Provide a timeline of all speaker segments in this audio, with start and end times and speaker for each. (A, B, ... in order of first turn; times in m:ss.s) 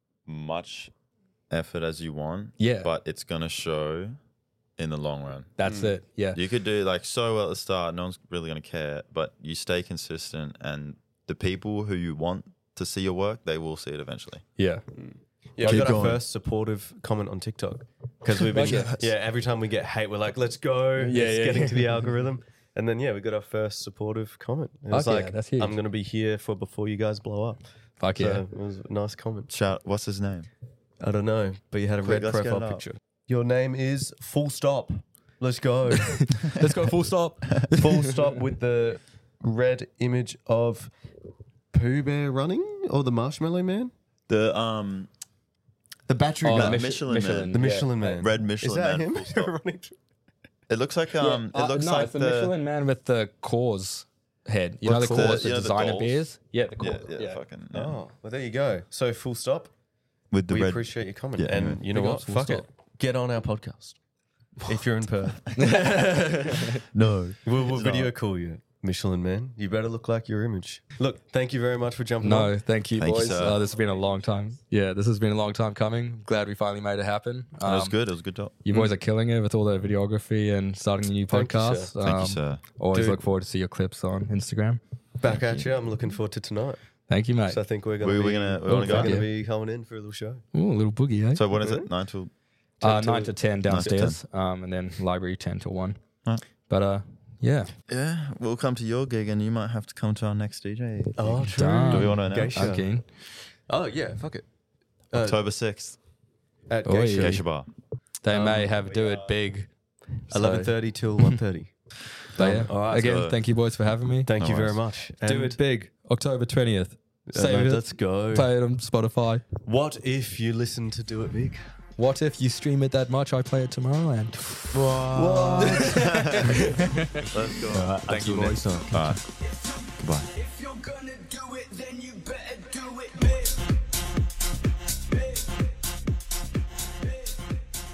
0:00.2-0:00.9 A
0:01.5-0:04.2 A
0:02.6-0:02.9 B
0:04.8-0:05.5 A
0:05.6-0:06.4 B
0:05.6-0:06.0 C
0:06.3-0:14.4 A
0:14.6-0:14.8 B
0:15.0-0:27.6 C
0:15.6-0:16.2 B
0:15.6-0:16.2 A
0:18.4-0:19.0 B
0:18.6-0:19.1 A
0:21.0-0:22.1 B
0:24.9-0:25.8 B
0:28.0-0:28.4 B
0:28.2-0:29.5 C
0:29.5-0:30.5 A
0:31.0-0:36.3 C
0:32.0-0:32.8 A
0:36.1-0:38.3 B
0:37.7-0:40.9 C
0:41.7-0:43.9 C
0:44.3-0:45.1 A
0:46.1-0:46.8 C
0:46.4-0:48.2 B
0:46.4-0:49.5 A
0:47.5-0:50.0 C
0:50.7-0:52.5 A
0:51.2-0:57.4 B
0:54.8-0:56.2 A
0:55.0-0:55.4 C
0:56.8-0:58.0 A
0:57.7-0:59.7 C
1:00.3-1:01.8 A
1:00.5-1:04.0 C
1:01.9-1:02.7 B
1:04.7-1:05.8 C
1:05.5-1:06.8 B
1:06.9-1:08.1 A
1:07.4-1:12.6 C
1:12.2-1:17.9 B
1:13.0-1:13.6 A
1:17.6-1:18.9 A
1:18.6-1:24.8 B
1:21.3-1:21.9 C
1:22.0-1:22.6 A
1:22.9-1:23.2 C
1:25.2-1:26.8 C
1:25.3-1:25.6 A
1:27.1-1:27.6 B
1:27.5-1:30.4 C
1:28.0-1:29.2 A
1:28.7-1:29.3 B
1:30.5-1:31.4 B
1:31.3-1:32.3 A
1:31.6-1:31.9 C
1:32.8-1:33.3 C
1:32.8-1:36.0 B
1:33.6-1:34.2 A
1:36.7-1:37.7 B
1:37.9-1:42.7 A
1:41.2-1:42.9 C
1:41.5-1:43.0 B
1:43.7-1:44.4 C
1:45.1-1:45.4 C
1:45.1-1:46.0 A
1:46.7-1:47.4 C
1:46.8-1:47.4 B
1:47.2-1:47.7 A
1:48.2-1:49.7 B
1:48.3-1:48.7 C
1:50.3-1:51.4 B
1:50.3-1:51.7 C
1:52.4-1:53.3 C
1:52.4-1:54.3 B
1:52.8-1:53.4 A
1:54.2-1:55.6 C
1:54.4-1:54.8 A
1:55.2-1:59.5 B
1:57.3-1:58.5 C
1:59.6-2:01.6 C
2:02.0-2:04.9 B
2:04.7-2:07.9 A
2:05.1-2:06.9 C
2:05.6-2:09.0 B
2:07.7-2:08.9 C
2:08.8-2:13.8 D
2:08.9-2:09.2 A
2:10.0-2:10.3 A
2:15.0-2:15.8 D
2:17.0-2:17.6 D